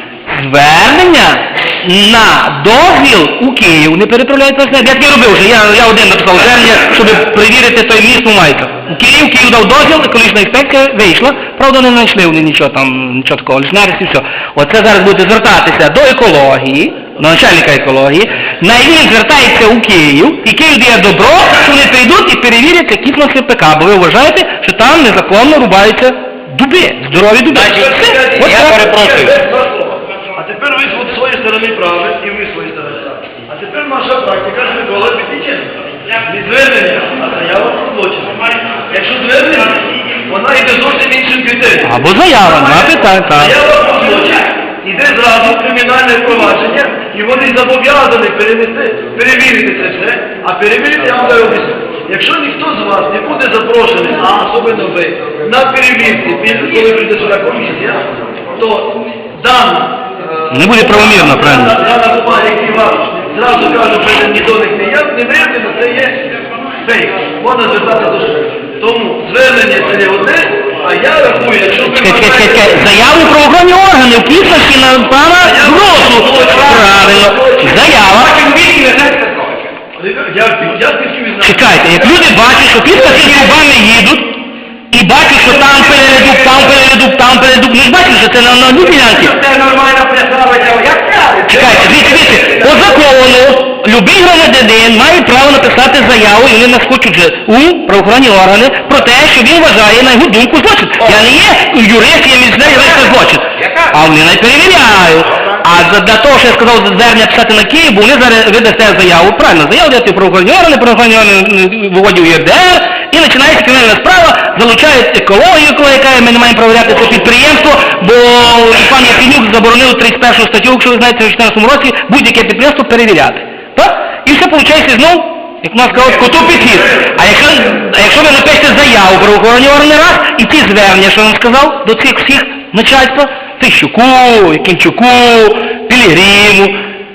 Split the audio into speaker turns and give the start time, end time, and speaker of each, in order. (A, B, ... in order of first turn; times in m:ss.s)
0:00.3-0:29.3 A
0:27.5-1:06.2 B
0:27.5-0:29.3 C
0:41.8-0:43.6 A
1:00.5-1:01.8 A
1:06.8-1:12.8 B
1:11.7-1:18.3 A
1:15.4-1:17.8 B
1:17.9-1:19.7 C
1:20.0-1:23.4 B
1:21.4-1:24.4 A
1:24.9-1:29.3 A
1:25.4-1:26.7 C
1:28.8-1:32.9 C
1:31.5-2:16.8 A
1:43.6-1:43.9 C